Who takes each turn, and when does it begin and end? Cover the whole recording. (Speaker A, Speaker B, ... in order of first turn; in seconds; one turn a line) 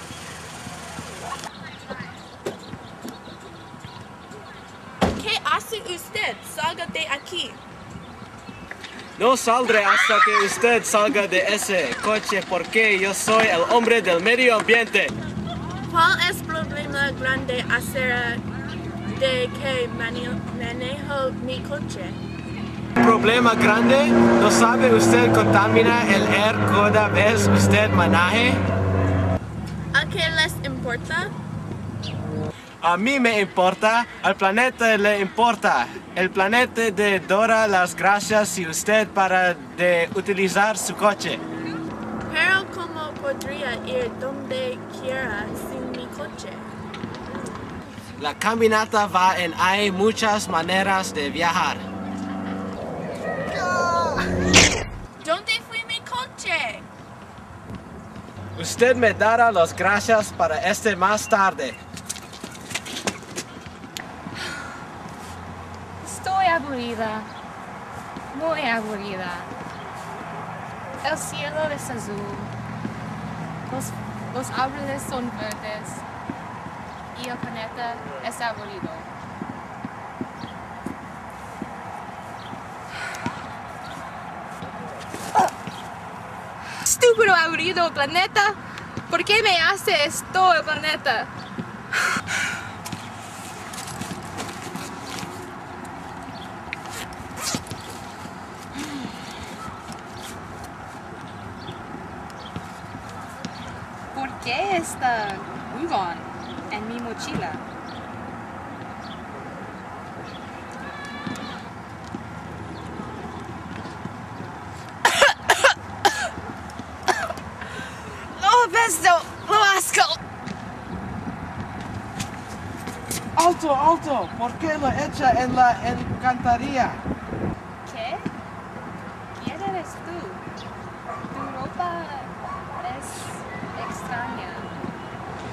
Speaker A: 5.2-7.6
Speaker B: 9.2-15.1
Speaker A: 15.9-18.4
Speaker A: 19.1-22.2
Speaker B: 23.0-28.6
Speaker A: 29.9-31.3
Speaker B: 32.8-41.4
Speaker A: 42.3-46.7
Speaker B: 48.2-51.8
Speaker A: 55.2-56.9
Speaker B: 58.6-61.8
Speaker C: 66.0-67.3
Speaker C: 68.3-69.5
Speaker C: 71.0-72.5
Speaker C: 73.7-76.0
Speaker C: 77.2-79.1
Speaker C: 86.8-88.6
Speaker C: 89.1-91.3
Speaker C: 104.1-107.6
Speaker C: 118.3-120.2
Speaker B: 123.4-127.0
Speaker C: 127.8-128.3
Speaker C: 129.4-130.4
Speaker C: 131.3-134.7